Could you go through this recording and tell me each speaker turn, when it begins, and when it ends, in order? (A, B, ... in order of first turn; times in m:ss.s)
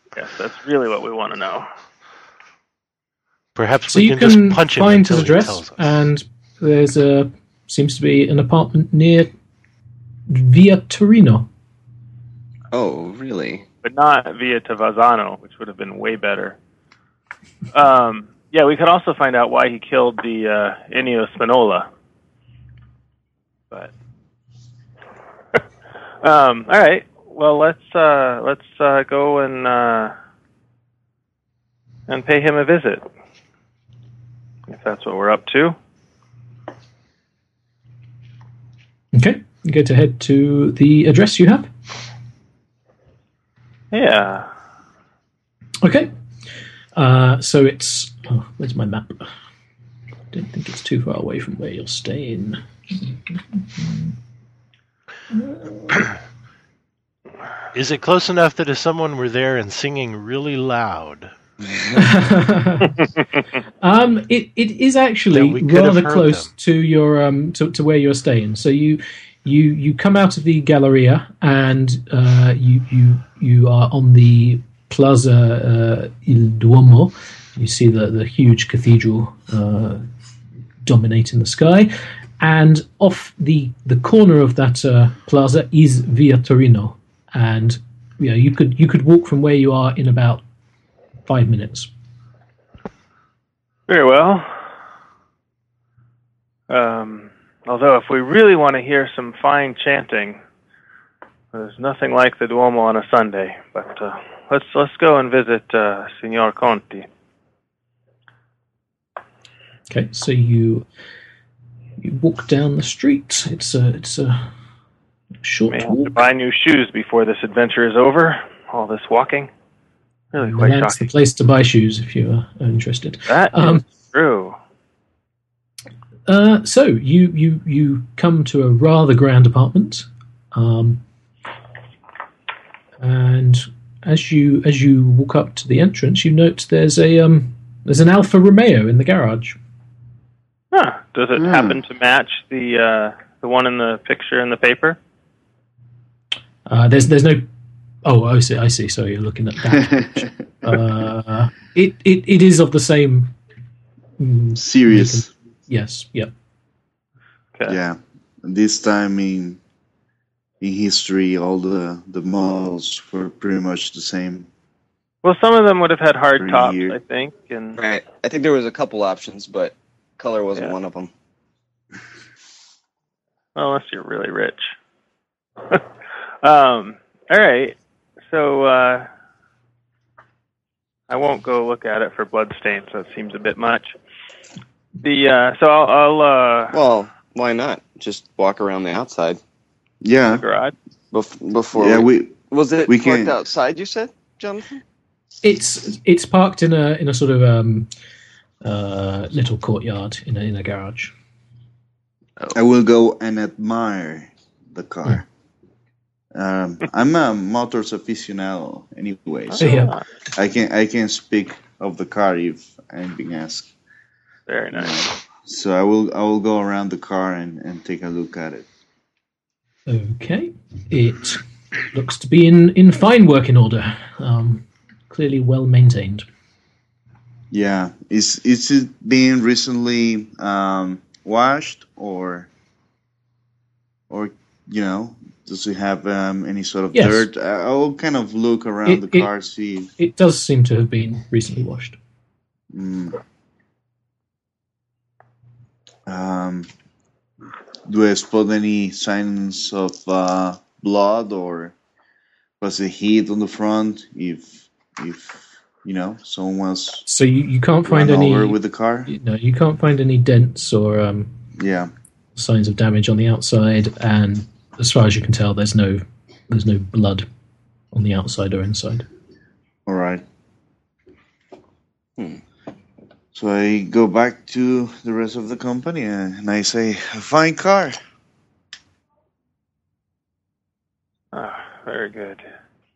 0:00.1-0:01.7 A
0:03.5-0:05.9 B
0:03.9-0:09.3 C
0:10.3-0:11.5 C
0:12.7-0:13.6 D
0:13.8-0:16.6 A
0:17.7-0:21.9 A
0:26.2-0:30.1 A
0:32.1-0:33.1 A
0:34.7-0:35.8 A
0:39.1-0:41.7 C
0:43.9-0:44.5 A
0:45.8-0:46.1 C
0:46.9-0:49.3 C
0:50.3-0:52.6 C
0:55.3-0:56.0 C
0:57.7-1:01.3 B
1:01.9-1:03.0 C
1:03.8-1:20.0 C
1:05.3-1:06.5 B
1:20.8-1:30.4 C
1:31.2-1:31.9 C
1:33.9-1:34.5 A
1:36.7-1:40.4 A
1:41.5-1:47.0 A
1:49.9-1:50.8 C
1:52.0-1:54.5 C
1:55.4-1:56.2 C
1:55.7-1:59.5 A
2:00.3-2:01.1 A
2:00.4-2:03.8 C
2:03.3-2:04.6 A
2:06.3-2:11.0 C
2:13.0-2:19.6 C
2:20.7-2:25.0 A
2:21.3-2:21.8 E
2:26.6-2:27.4 C
2:28.0-2:33.4 C
2:29.7-2:30.3 E
2:34.2-2:36.3 C
2:34.6-2:35.3 E
2:37.7-2:39.6 E
2:40.6-2:44.5 E
2:45.2-2:47.8 A
2:46.4-2:47.0 E
2:47.8-2:51.1 D
2:53.5-2:54.7 A
2:56.4-2:57.8 A
2:58.3-2:59.1 A
3:01.1-3:03.9 A
3:05.0-3:06.7 A
3:06.7-3:09.4 D
3:10.0-3:10.4 E
3:10.3-3:10.7 A
3:11.1-3:14.8 D
3:11.7-3:13.4 E
3:15.4-3:17.9 C
3:18.6-3:21.1 C
3:22.5-3:25.2 E
3:26.3-3:33.7 E
3:29.5-3:30.0 A
3:29.6-3:29.9 C
3:34.5-3:35.1 A
3:34.7-3:38.6 E
3:39.9-3:46.2 C
3:47.5-3:52.5 E
3:54.1-3:59.9 E
3:56.9-3:57.3 C
3:58.8-3:59.3 C
4:00.0-4:02.0 C
4:02.7-4:03.2 E
4:06.1-4:06.7 E
4:07.8-4:11.7 E
4:12.6-4:17.0 E
4:17.0-4:21.4 C
4:17.9-4:19.1 E
4:21.6-4:21.9 E
4:22.3-4:27.3 C
4:27.9-4:29.0 C
4:29.8-4:30.2 E
4:33.3-4:38.0 E
4:41.3-4:42.4 A